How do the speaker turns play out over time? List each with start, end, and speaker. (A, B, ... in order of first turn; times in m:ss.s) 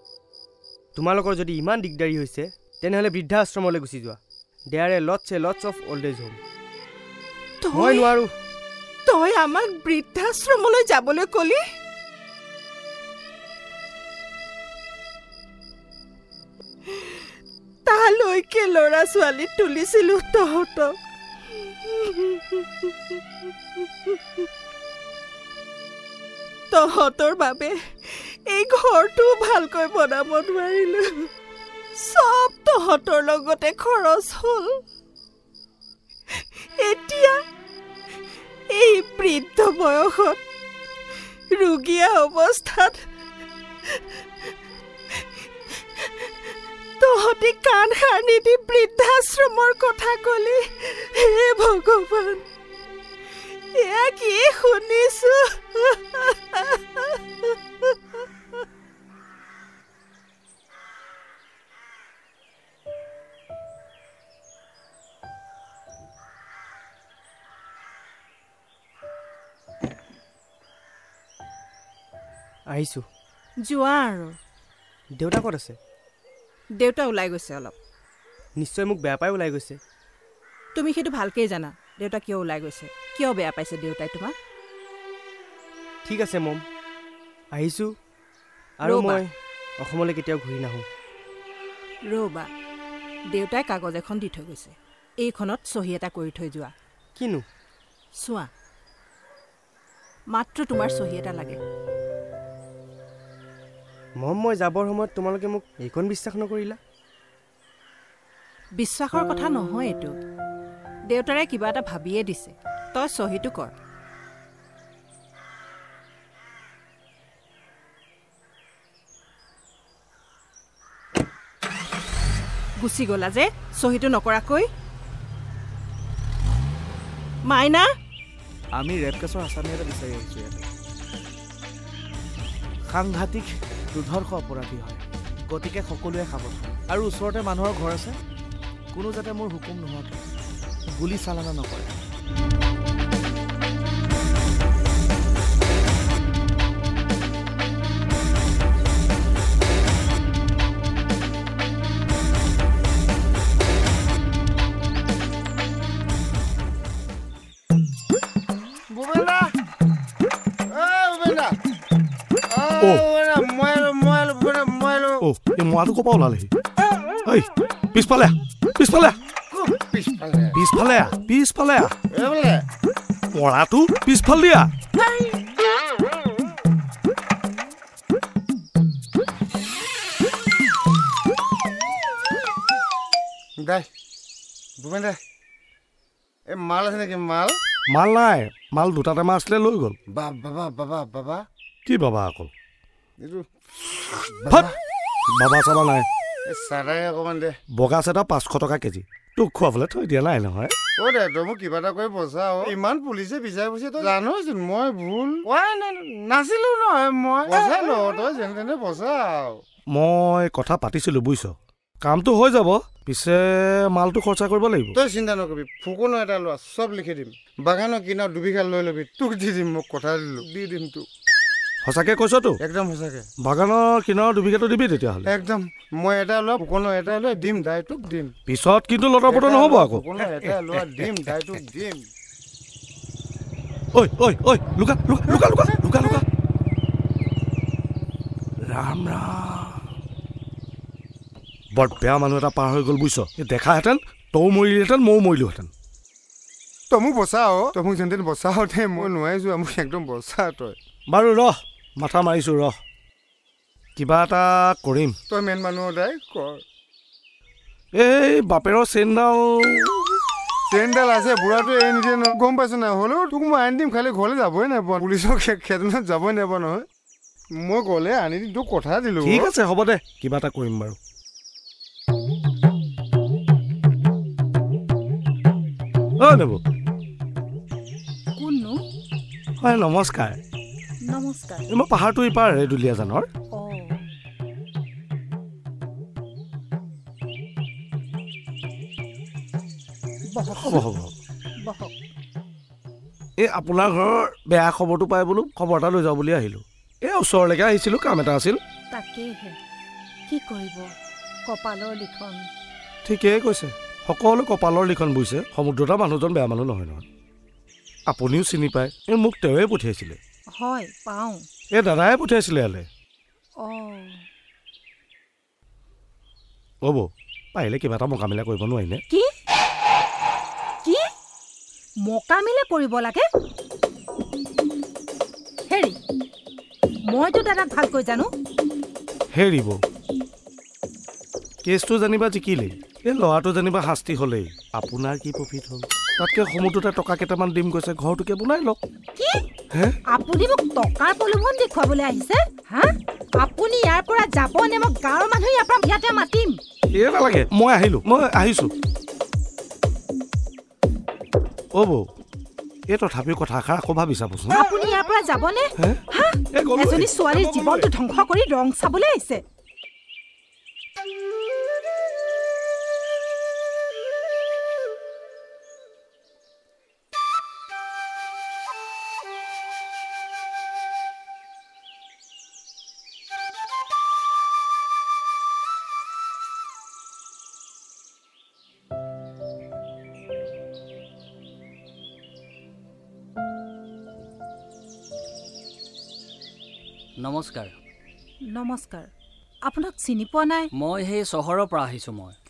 0:01.0-0:04.2 A
0:04.7-0:06.4 A
0:07.6-0:08.1 B
0:07.7-0:08.3 A
0:09.0-0:11.6 B
0:16.9-0:17.2 B
0:17.8-0:21.0 B
0:21.5-0:23.2 B
0:26.7-0:31.3 B
0:32.0-0:34.8 B
0:36.3-0:37.4 B
0:38.7-0:40.4 B
0:41.5-0:43.0 B
0:46.0-0:46.4 B
0:47.0-0:52.4 B
0:53.7-0:58.2 B
1:12.7-1:13.0 A
1:13.6-1:14.3 B
1:15.2-1:15.7 A
1:16.8-1:17.7 B
1:18.6-1:19.8 A
1:20.7-1:24.3 B
1:26.0-1:26.6 A
1:27.5-1:27.9 A
1:28.8-1:30.8 A
1:28.8-1:29.2 B
1:32.1-1:32.5 B
1:33.3-1:36.7 B
1:37.2-1:37.4 A
1:38.2-1:38.5 B
1:40.3-1:41.6 B
1:44.2-1:46.8 A
1:48.8-1:50.1 B
1:51.1-1:53.7 B
2:02.8-2:04.7 B
2:07.5-2:07.9 B
2:08.7-2:10.6 C
2:12.9-2:18.2 C
2:18.9-2:20.2 C
2:20.9-2:21.9 C
2:38.9-2:39.5 D
2:40.7-2:41.6 D
2:42.5-2:45.2 D
2:45.2-2:46.5 E
2:47.2-2:49.2 E
2:49.5-2:50.5 D
2:50.5-2:51.9 E
2:52.1-2:52.6 D
2:53.3-2:54.7 E
3:03.6-3:03.8 D
3:04.8-3:05.2 D
3:06.5-3:07.6 D
3:07.9-3:10.0 E
3:10.1-3:11.4 D
3:11.8-3:12.5 E
3:13.2-3:14.7 D
3:14.5-3:14.7 E
3:15.3-3:16.1 E
3:16.5-3:17.6 D
3:17.7-3:20.7 E
3:21.0-3:29.6 D
3:29.9-3:34.9 E
3:34.9-3:41.0 D
3:41.8-3:42.6 E
3:42.6-3:43.2 D
3:43.4-3:45.3 E
3:45.2-3:48.3 D
3:48.5-3:50.6 E
3:49.3-3:52.0 D
3:53.9-3:56.2 E
3:58.7-3:59.5 E
4:01.7-4:05.7 E
4:06.9-4:10.8 D
4:11.1-4:12.8 E
4:14.0-4:15.2 E
4:15.3-4:16.6 D
4:17.9-4:20.0 E
4:20.7-4:26.8 D
4:27.6-4:29.5 D
4:29.2-4:31.0 E
4:36.2-4:36.6 E
4:38.4-4:38.8 F
4:39.6-4:40.4 E
4:41.1-4:41.6 F
4:41.7-4:43.3 E
4:43.5-4:44.0 F
4:50.3-4:50.9 F
4:50.5-4:51.1 E
4:51.6-4:51.9 F
4:53.4-4:58.6 E
4:58.9-4:59.6 F
5:00.3-5:00.9 F
5:01.5-5:02.4 F
5:03.0-5:07.0 E
5:08.1-5:10.2 E
5:10.6-5:11.4 F
5:11.7-5:12.8 E
5:13.6-5:14.2 F
5:16.8-5:19.0 E
5:22.0-5:23.2 F
5:25.7-5:26.0 F
5:27.1-5:28.3 F
5:29.3-5:29.8 E
5:31.6-5:38.8 E
5:39.2-5:39.4 F
5:40.1-5:46.6 F
5:46.9-5:48.7 E
5:51.7-5:52.1 E
5:52.9-5:54.6 E
5:54.5-5:59.4 F
5:56.5-5:57.9 E
6:27.2-6:27.7 G
6:28.5-6:29.1 F
6:29.6-6:30.7 F
6:30.7-6:32.3 G